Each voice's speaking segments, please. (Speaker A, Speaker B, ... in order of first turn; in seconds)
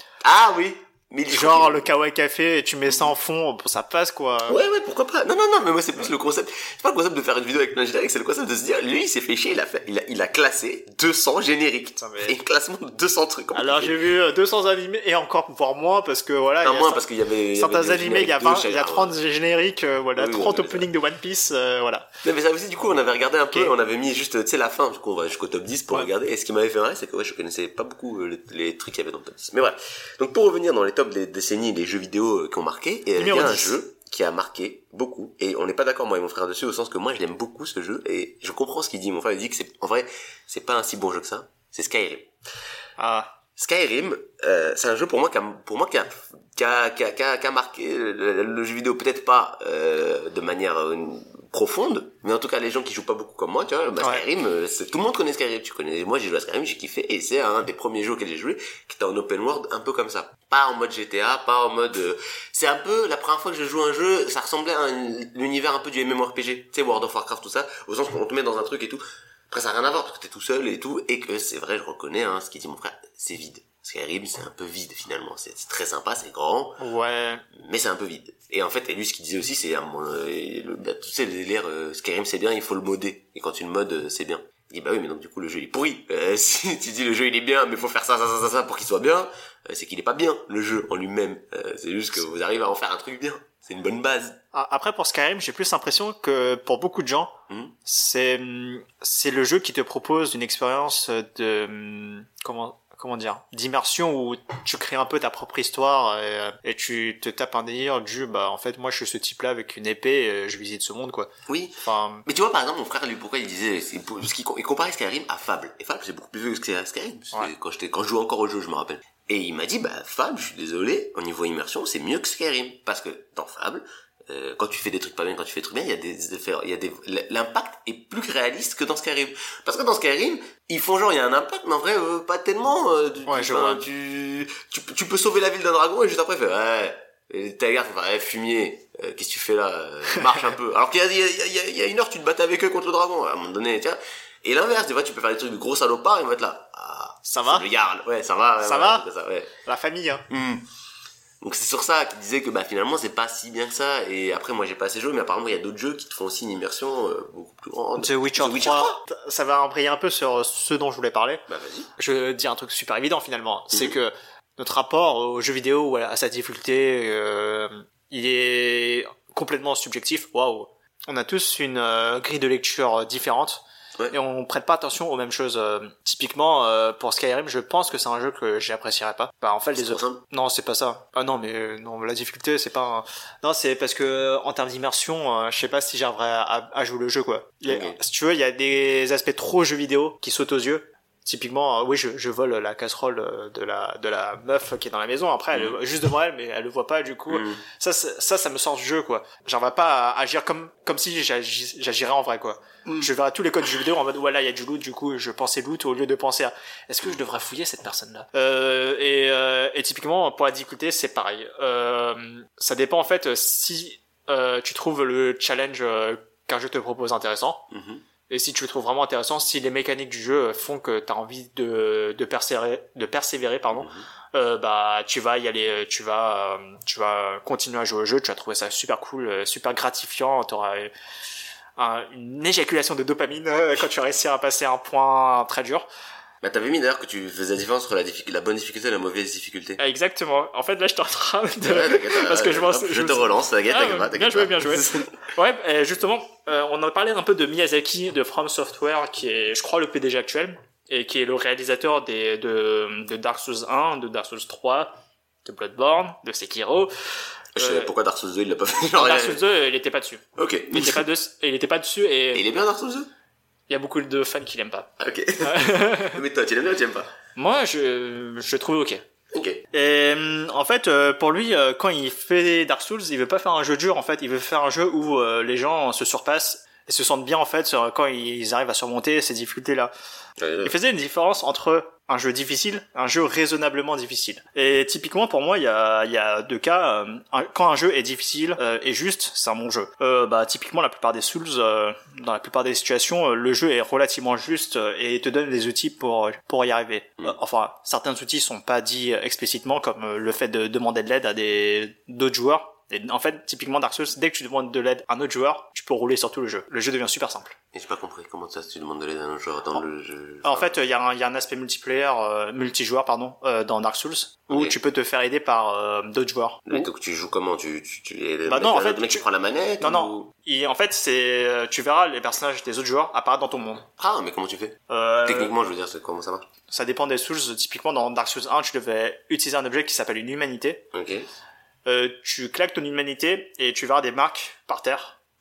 Speaker A: 0.2-1.9, 4.5-13.9, 16.6-19.1, 20.1-20.9, 22.2-42.3, 43.6-76.8, 77.5-94.4, 97.5-97.7, 111.5-149.5, 150.3-150.6, 151.4-159.0, 161.5-161.9, 179.8-180.2, 187.7-188.0, 197.3-197.6, 217.7-218.0, 223.8-224.0, 236.4-239.8, 241.6-245.1, 257.6-259.4, 260.4-261.0, 262.3-263.1, 265.0-267.1, 269.3-269.6, 280.4-280.7, 307.7-310.8, 314.5-314.8, 316.7-320.3, 324.0-326.5, 330.9-331.3
Speaker B: 1.3-4.6, 12.0-12.3, 13.5-22.1, 33.1-33.8, 43.0-43.3, 76.8-77.4, 94.5-111.3, 111.8-112.2, 133.2-133.8, 147.2-147.7, 148.6-149.1, 149.6-150.2, 158.0-161.4, 162.0-217.7, 218.3-230.9, 231.8-235.9, 239.8-256.9, 257.6-257.9, 258.9-262.5, 263.7-266.2, 267.4-269.0, 269.7-279.9, 280.6-307.6, 310.4-316.9, 318.5-319.2, 319.8-323.9, 324.9-325.5, 326.7-330.9, 331.9-335.2